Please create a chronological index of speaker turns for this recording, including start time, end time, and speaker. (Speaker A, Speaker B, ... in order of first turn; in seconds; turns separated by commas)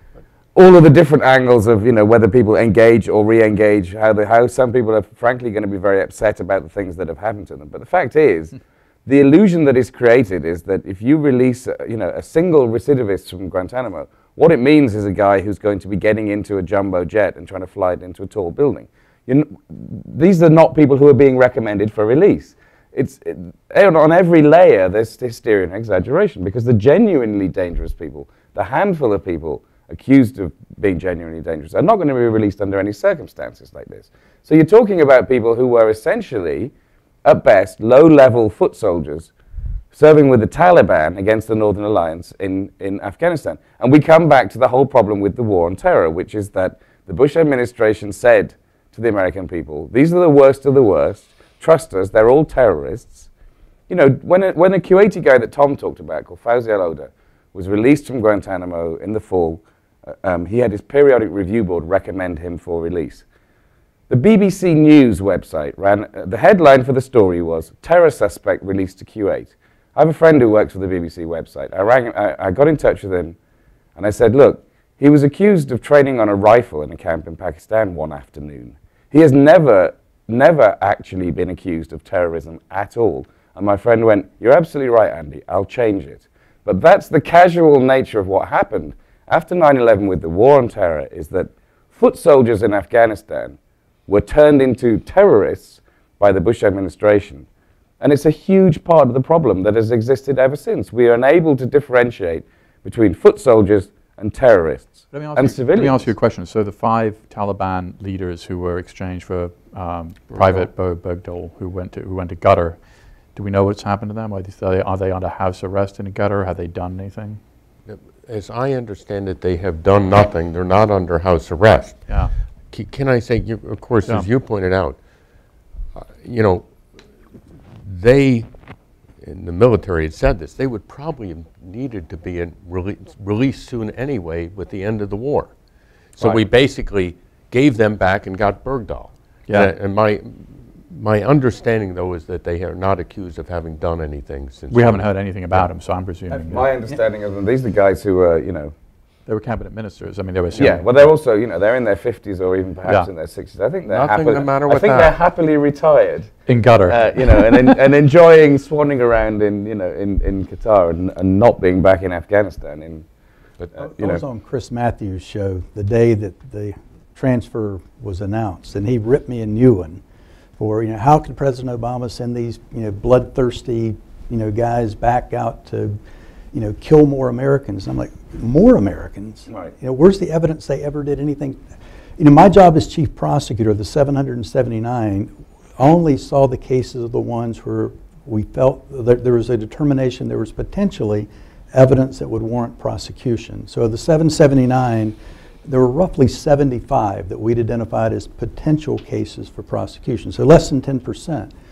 Speaker A: 0.6-36.7, Speaker A: 37.2-39.3, Speaker A: 39.9-53.3, Speaker A: 53.9-63.2, Speaker A: 64.1-73.4, Speaker A: 74.0-97.5, Speaker A: 98.0-106.1, Speaker B: 105.1-112.8, Speaker C: 110.3-110.7, Speaker B: 113.4-117.4, Speaker C: 117.9-122.0, Speaker B: 122.1-122.3, Speaker C: 122.7-125.0, Speaker C: 126.0-126.7, Speaker C: 127.8-128.5, Speaker C: 129.2-135.5, Speaker C: 136.2-145.7, Speaker B: 144.7-146.7, Speaker A: 146.3-148.7, Speaker B: 149.3-151.1, Speaker A: 150.6-163.1, Speaker C: 153.9-155.2, Speaker B: 156.5-157.5, Speaker A: 163.7-164.2, Speaker D: 163.8-170.0, Speaker D: 170.6-176.0, Speaker D: 176.5-181.7, Speaker D: 182.2-201.5